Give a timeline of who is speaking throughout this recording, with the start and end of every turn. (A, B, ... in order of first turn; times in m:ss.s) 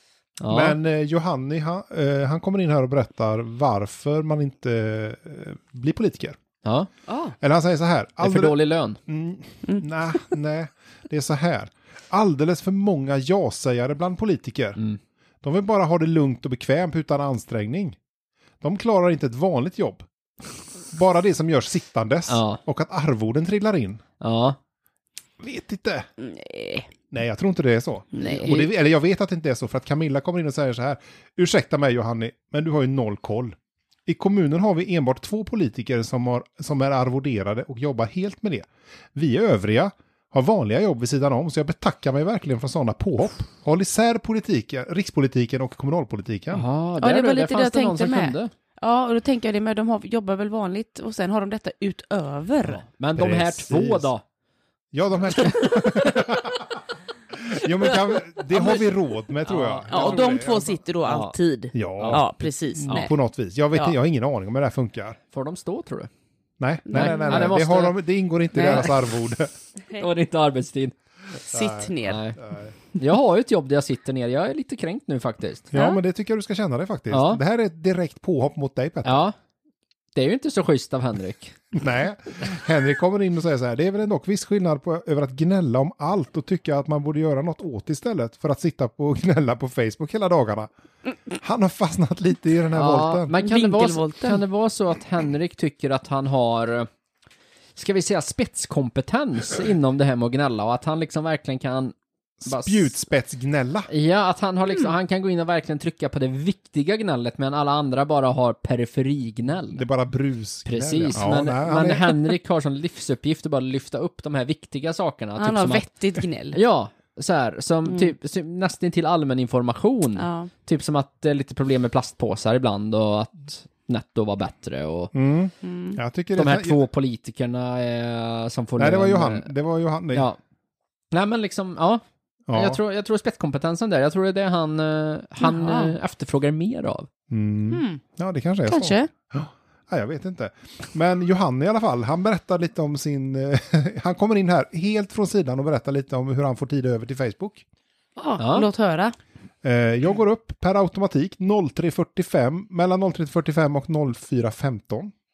0:00.4-0:00.8 A
0:00.5-0:06.4 B
0:06.6-0:07.3 A
0:07.4-0:14.8 B
0:08.2-0:09.0 A
0:15.4-0:18.0 B
0:18.6-0:20.1 B
0:20.9-0:24.0 B
0:22.3-0:22.6 A
0:24.2-0:24.6 A
0:25.4-0:26.1 B
0:26.2-0:26.9 C
0:27.1-0:46.7 B
0:28.1-0:28.6 C
0:46.5-0:48.5 A
0:47.0-0:52.8 C
0:52.7-0:54.2 A
0:53.2-0:54.1 B
0:54.9-0:56.8 B
0:55.4-0:56.2 A
0:57.3-1:00.8 B
0:57.6-0:58.9 A
0:59.4-1:00.2 A
0:59.9-1:03.1 C
1:01.1-1:01.4 A
1:01.7-1:05.2 B
1:05.3-1:06.1 A
1:06.6-1:09.5 B
1:06.9-1:07.6 C
1:06.9-1:08.0 A
1:08.5-1:08.9 C
1:08.7-1:09.0 A
1:10.0-1:11.0 A
1:11.5-1:12.2 C
1:11.5-1:12.8 B
1:12.1-1:12.4 A
1:13.0-1:15.7 A
1:15.7-1:19.2 B
1:15.7-1:16.0 C
1:17.1-1:17.4 A
1:19.0-1:19.4 A
1:20.2-1:21.7 A
1:21.7-1:30.7 B
1:31.3-1:33.3 B
1:32.7-1:36.9 A
1:33.4-1:34.4 C
1:37.8-1:42.0 A
1:42.4-1:43.9 B
1:42.5-1:42.9 A
1:43.9-1:49.8 A
1:49.7-1:52.2 B
1:50.6-2:05.1 A
1:55.4-1:56.6 C
1:57.9-1:58.1 C
2:00.2-2:00.5 C
2:05.1-2:06.8 B
2:05.6-2:06.0 C
2:06.4-2:09.5 A
2:08.8-2:10.3 B
2:10.1-2:10.4 A
2:11.1-2:17.1 A
2:12.5-2:12.8 B
2:15.4-2:15.9 C
2:17.3-2:27.6 B
2:17.7-2:18.0 C
2:18.7-2:19.1 C
2:28.2-2:29.2 C
2:28.4-2:28.7 A
2:29.6-2:35.1 B